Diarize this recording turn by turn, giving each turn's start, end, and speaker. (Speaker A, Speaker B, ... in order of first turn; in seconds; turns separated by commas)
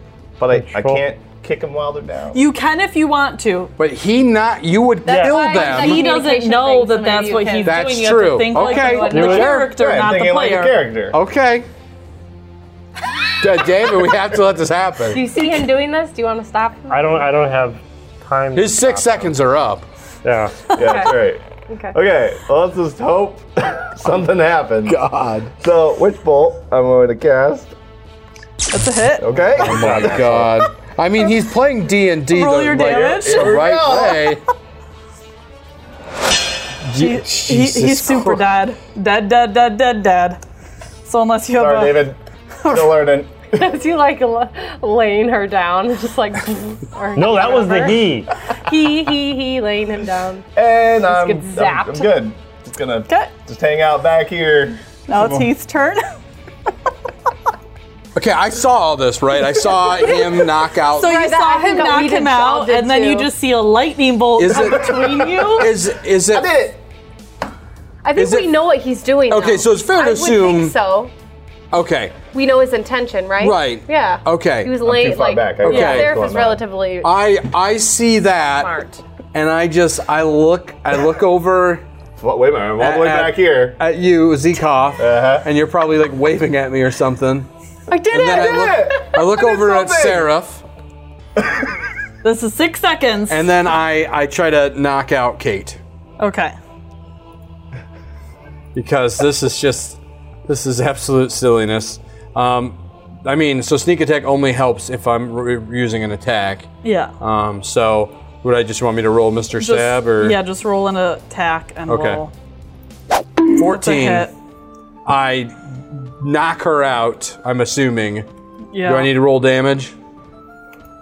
Speaker A: 0.4-2.4, Speaker B: 0.5-1.0, Speaker C: 2.3-3.7, Speaker D: 3.8-6.0, Speaker E: 5.0-9.6, Speaker B: 5.1-5.5, Speaker C: 5.5-10.8, Speaker D: 7.6-9.7, Speaker B: 9.1-9.6, Speaker A: 9.7-11.2, Speaker D: 11.1-11.7, Speaker D: 13.4-15.2, Speaker E: 15.1-17.3, Speaker B: 16.9-19.3, Speaker D: 18.5-19.8, Speaker B: 20.2-20.7, Speaker A: 20.7-25.0, Speaker E: 20.7-21.9, Speaker D: 24.9-25.5, Speaker A: 25.6-27.7, Speaker C: 28.7-29.4, Speaker A: 29.2-30.6, Speaker D: 29.6-34.4, Speaker B: 29.7-30.2, Speaker C: 32.3-33.6, Speaker A: 33.1-34.4, Speaker D: 36.8-38.5, Speaker C: 36.9-40.4, Speaker C: 41.0-42.1, Speaker A: 41.5-43.6, Speaker C: 42.6-43.0, Speaker E: 43.5-50.5, Speaker B: 47.1-48.3, Speaker A: 50.5-55.5, Speaker E: 51.1-52.1, Speaker C: 55.1-56.0, Speaker D: 58.1-61.2, Speaker C: 60.9-65.7, Speaker E: 61.0-63.3, Speaker D: 64.4-66.5, Speaker A: 64.5-65.7, Speaker A: 66.3-66.8, Speaker E: 68.0-71.1, Speaker D: 68.2-68.5, Speaker D: 69.3-70.7, Speaker D: 71.7-72.2, Speaker E: 72.3-77.1, Speaker D: 73.4-74.7, Speaker A: 74.8-76.6, Speaker D: 75.6-76.2, Speaker D: 77.0-78.7, Speaker E: 78.5-79.0, Speaker D: 79.3-81.8, Speaker A: 82.2-83.8, Speaker D: 82.8-87.5, Speaker A: 85.0-85.5, Speaker A: 87.9-90.3, Speaker D: 88.1-90.6, Speaker E: 88.3-88.7, Speaker C: 92.2-93.5, Speaker D: 93.3-95.8, Speaker C: 96.2-96.5, Speaker D: 98.7-110.4, Speaker C: 106.8-107.1, Speaker C: 109.6-112.3, Speaker D: 111.9-112.2, Speaker D: 113.5-114.3, Speaker C: 113.6-114.3, Speaker D: 115.0-118.2, Speaker C: 118.7-119.1, Speaker D: 118.8-119.9